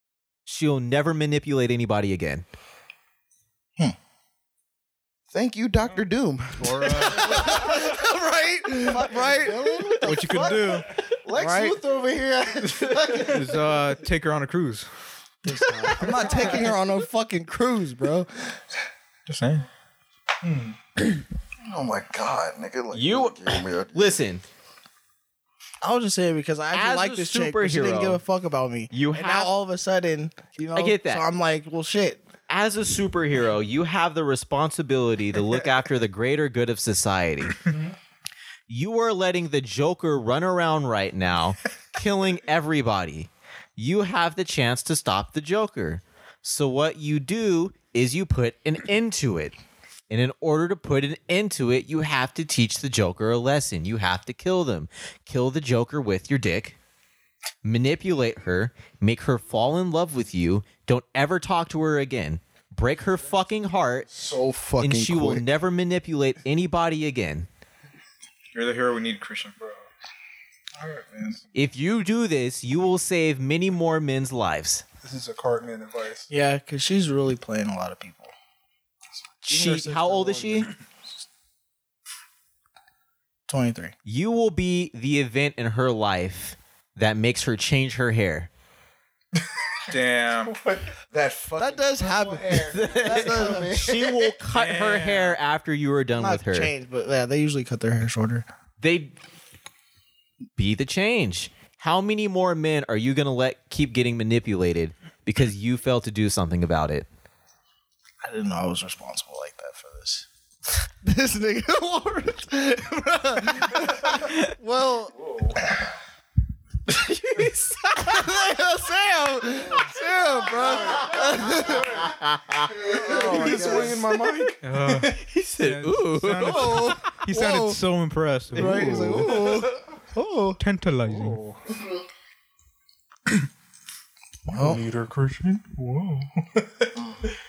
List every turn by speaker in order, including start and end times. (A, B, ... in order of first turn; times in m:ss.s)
0:00.4-0:02.4 A
0:05.3-0:07.9 B
0:06.6-0:07.3 C
0:06.7-0:07.0 D
0:06.9-0:10.2 E
0:08.8-0:13.6 B
0:10.0-0:10.9 C
0:11.3-0:11.8 E
0:13.3-0:14.9 C
0:15.4-0:18.6 E
0:16.0-0:16.6 A
0:19.3-0:19.7 C
0:20.4-0:20.8 D
0:21.6-0:24.2 B
0:22.9-0:24.4 A
0:25.8-0:32.2 E
0:26.7-0:28.2 A
0:28.9-0:29.5 A
0:30.7-0:31.2 A
0:32.5-0:37.6 A
0:38.7-0:49.5 A
0:50.1-0:56.8 A
0:57.6-1:04.1 A
1:04.1-1:05.4 B
1:04.8-1:07.5 A
1:08.5-1:09.6 C
1:10.8-1:11.4 D
1:11.5-1:14.8 A
1:15.0-1:16.3 D
1:16.3-1:18.3 E
1:19.4-1:20.7 E
1:19.5-1:20.7 A
1:23.5-1:23.9 E
1:24.0-1:28.5 A
1:29.9-1:30.5 C
1:31.0-1:34.3 B
1:31.6-1:33.7 E
1:32.6-1:36.7 A
1:34.6-1:35.3 C
1:36.2-1:38.4 E
1:38.8-1:39.1 A
1:40.6-1:47.1 A
1:48.2-1:50.2 E
1:50.8-1:55.1 E
1:55.2-1:55.6 D
1:56.9-1:58.2 A
1:58.0-2:02.1 E
2:00.5-2:01.1 B
2:02.0-2:02.7 A
2:02.8-2:04.1 B
2:02.9-2:05.2 D
2:02.9-2:04.0 E
2:04.6-2:09.5 C
2:05.1-2:07.0 A
2:06.4-2:07.8 E
2:08.5-2:10.6 E
2:08.6-2:09.6 A
2:10.6-2:11.4 C
2:11.0-2:11.6 D
2:14.5-2:16.9 D
2:14.5-2:14.8 E